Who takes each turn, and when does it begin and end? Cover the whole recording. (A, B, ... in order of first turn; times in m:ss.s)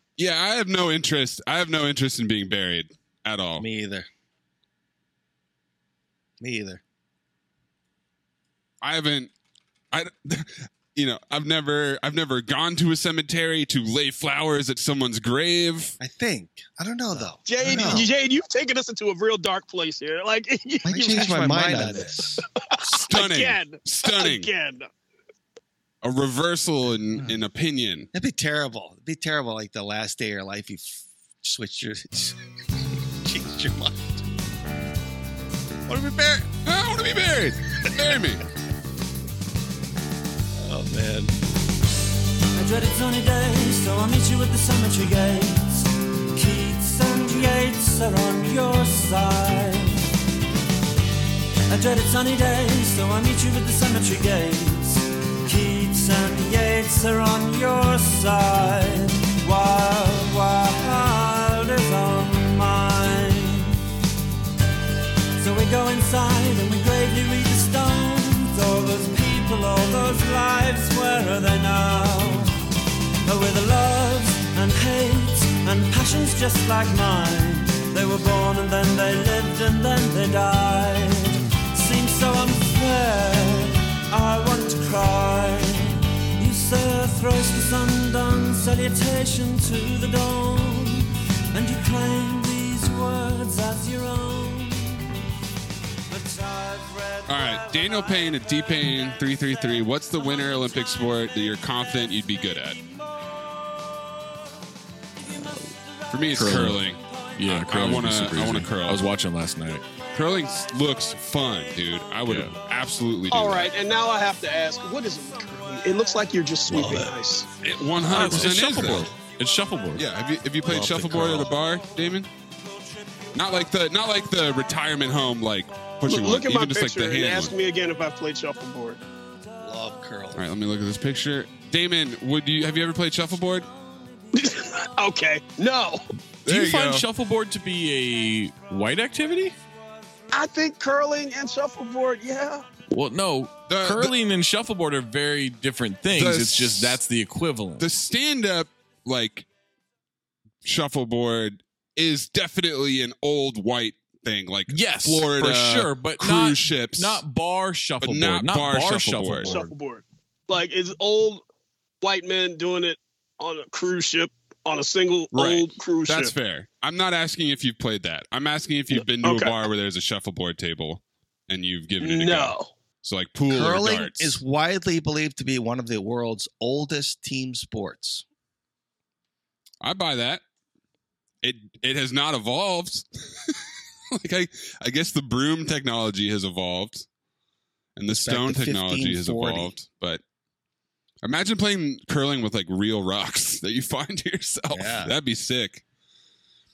0:00.2-0:03.6 A
0:03.6-0:04.1 B
0:06.4-0:06.8 B
0:08.8-0:09.3 A
0:09.9-0:16.0 A
0:16.0-0:18.1 B
0:17.4-0:22.0 C
0:20.8-0:22.4 B
0:22.7-0:24.9 C
0:22.9-0:24.5 A
0:26.0-0:28.1 A
0:28.1-0:32.4 B
0:33.2-0:34.3 B
0:35.9-0:36.5 B
0:36.6-0:38.4 A
0:40.5-0:41.3 B
0:42.5-0:50.1 D
0:51.7-1:03.8 D
1:05.4-1:12.6 D
1:13.2-1:35.2 D
1:36.1-1:38.4 D
1:37.3-1:42.8 A
1:45.2-1:45.7 E
1:46.1-1:49.0 A
1:46.3-1:49.9 E
1:50.1-1:53.7 A
1:52.3-1:52.5 E
1:53.3-1:57.5 C
1:56.7-1:57.1 E
1:56.7-1:57.0 B
1:57.6-1:59.1 A
1:58.0-2:00.0 E
2:00.0-2:02.3 A
2:00.6-2:01.5 E
2:03.3-2:07.5 A
2:06.0-2:09.0 C
2:09.6-2:10.4 B
2:10.3-2:13.7 A
2:14.3-2:16.0 C
2:16.4-2:17.0 A
2:16.4-2:19.5 E
2:20.3-2:22.7 C
2:22.9-2:27.8 E
2:23.7-2:24.1 A
2:26.1-2:27.0 A
2:27.8-2:29.5 A
2:30.6-2:37.2 A
2:34.7-2:39.7 E
2:38.0-2:39.6 A
2:39.4-2:41.4 C
2:42.0-2:46.3 C
2:45.3-2:54.4 A
2:49.0-2:49.6 C
2:52.0-2:52.7 C
2:53.5-2:58.2 B
2:59.8-3:00.4 A
3:01.4-3:03.5 A
3:04.1-3:07.0 A
3:08.0-3:10.2 A
3:08.1-3:09.7 B
3:11.2-3:15.8 A
3:14.7-3:15.1 B